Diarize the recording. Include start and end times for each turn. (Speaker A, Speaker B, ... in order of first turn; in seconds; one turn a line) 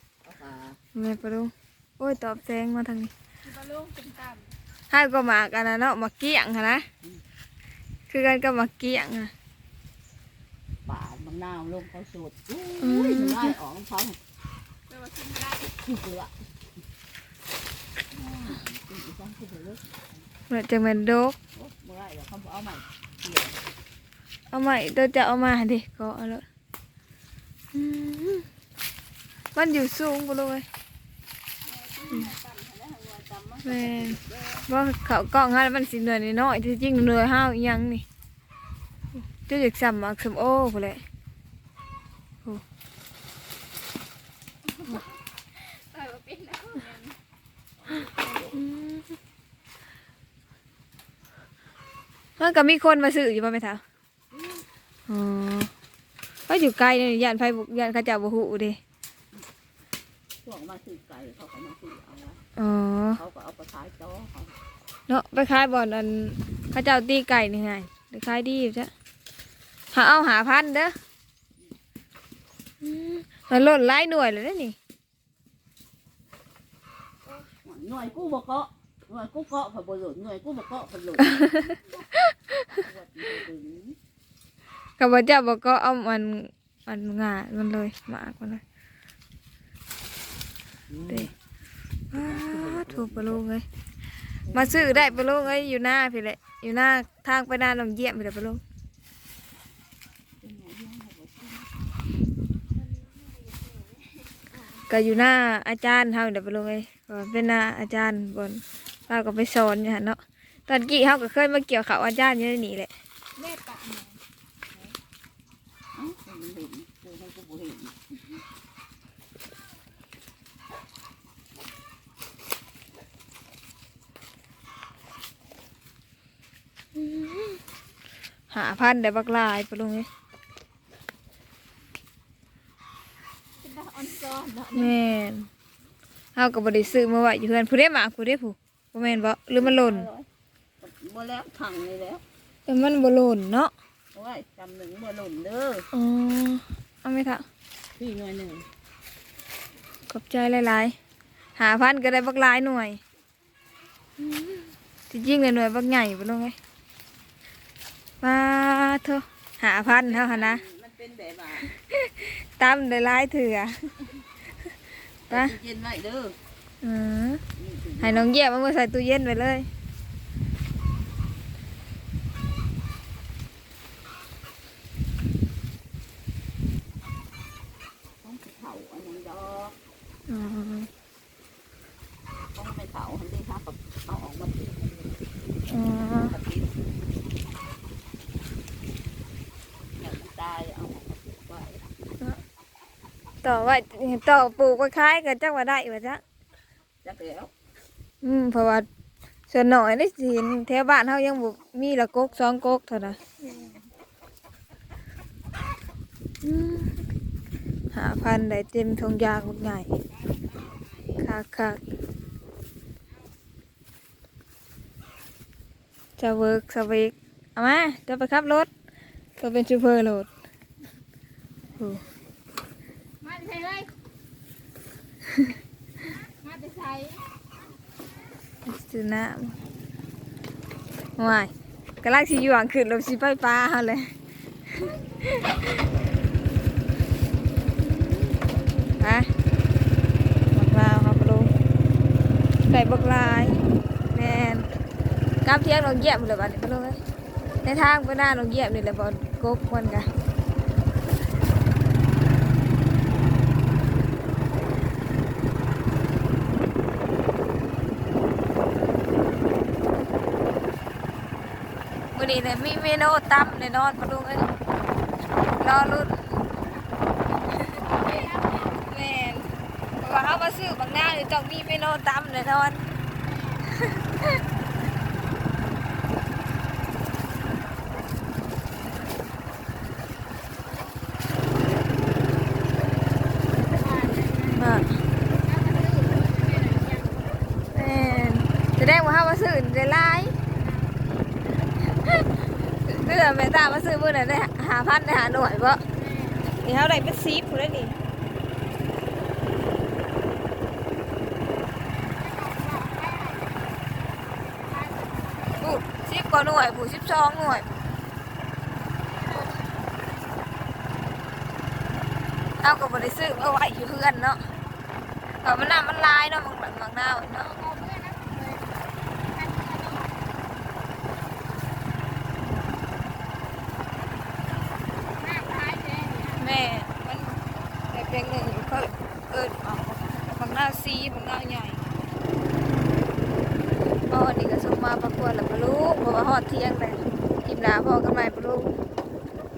Speaker A: 0.2-0.8
Speaker B: 0.9-3.1
Speaker C: 3.4-4.5
Speaker B: 4.9-6.9
Speaker B: 8.1-9.3
Speaker A: 10.8-14.2
Speaker B: 12.8-13.5
Speaker C: 14.9-15.7
Speaker A: 15.8-16.3
Speaker A: 18.1-19.8
Speaker B: 20.5-21.4
Speaker A: 21.5-23.6
Speaker B: 24.5-26.4
Speaker B: 27.7-28.5
Speaker B: 29.5-30.6
Speaker A: 31.6-34.6
Speaker B: 33.6-38.0
Speaker B: 39.2-41.0
Speaker C: 44.9-47.2
Speaker A: 47.8-48.6
Speaker B: 48.5-49.1
Speaker B: 52.4-53.8
Speaker A: 54.3-54.6
Speaker B: 55.1-55.7
Speaker B: 56.5-58.8
Speaker A: 60.4-62.4
Speaker B: 62.6-63.2
Speaker A: 63.1-64.5
Speaker B: 65.1-68.9
Speaker B: 69.9-70.9
Speaker B: 72.8-74.8
Speaker A: 77.6-81.7
Speaker B: 81.5-82.8
Speaker A: 82.8-84.0
Speaker B: 85.0-88.6
Speaker A: 90.9-91.3
Speaker B: 92.1-93.6
Speaker A: 92.1-93.4
Speaker A: 94.5-95.7
Speaker B: 94.5-98.6
Speaker A: 100.4-101.7
Speaker B: 104.9-112.9
Speaker C: 113.3-114.2
Speaker A: 115.9-117.9
Speaker B: 126.9-127.6
Speaker B: 128.5-130.1
Speaker C: 133.6-135.0
Speaker B: 134.7-135.5
Speaker B: 136.3-140.1
Speaker A: 139.6-140.3
Speaker A: 140.8-142.2
Speaker B: 142.7-143.7
Speaker A: 144.1-145.9
Speaker B: 145.9-147.4
Speaker A: 148.0-148.7
Speaker B: 150.1-150.9
Speaker B: 151.6-153.0
Speaker B: 154.2-156.6
Speaker B: 158.2-160.6
Speaker A: 159.9-161.7
Speaker B: 161.7-163.7
Speaker A: 165.3-166.3
Speaker B: 166.8-167.4
Speaker A: 167.6-168.3
Speaker B: 168.0-169.7
Speaker A: 178.2-179.7
Speaker B: 180.3-180.9
Speaker A: 182.5-185.2
Speaker B: 185.7-186.3
Speaker A: 186.3-186.7
Speaker A: 190.0-191.8
Speaker B: 193.4-196.2
Speaker A: 197.0-197.5
Speaker B: 198.2-198.8
Speaker B: 199.5-203.2
Speaker B: 206.4-206.9
Speaker B: 207.9-209.9
Speaker B: 211.2-211.8
Speaker B: 216.2-218.7
Speaker B: 219.4-220.3
Speaker B: 221.8-222.0
Speaker C: 223.2-223.9
Speaker C: 226.2-227.2
Speaker B: 228.6-229.6
Speaker B: 231.2-231.5
Speaker B: 232.0-234.1
Speaker B: 234.7-235.7
Speaker B: 239.0-239.3
Speaker B: 240.5-241.5
Speaker B: 242.7-243.6
Speaker C: 242.7-243.7
Speaker B: 244.1-244.7
Speaker B: 245.4-247.0
Speaker B: 247.6-250.1
Speaker B: 262.1-264.5
Speaker B: 265.6-266.1
Speaker B: 267.6-268.1
Speaker C: 267.7-268.8
Speaker B: 268.7-272.8
Speaker B: 273.8-274.4
Speaker C: 283.6-284.8
Speaker B: 284.6-284.9
Speaker C: 285.4-287.4
Speaker B: 287.7-290.3
Speaker C: 290.5-291.0
Speaker B: 292.0-295.8
Speaker C: 295.9-296.5
Speaker B: 296.4-297.9
Speaker C: 302.0-303.8
Speaker C: 304.5-305.7
Speaker B: 305.6-307.7
Speaker C: 309.2-309.9
Speaker B: 312.6-314.4
Speaker B: 315.4-317.5
Speaker C: 317.4-320.2
Speaker C: 325.2-326.5
Speaker B: 326.4-327.4
Speaker B: 327.9-331.8
Speaker B: 334.1-338.8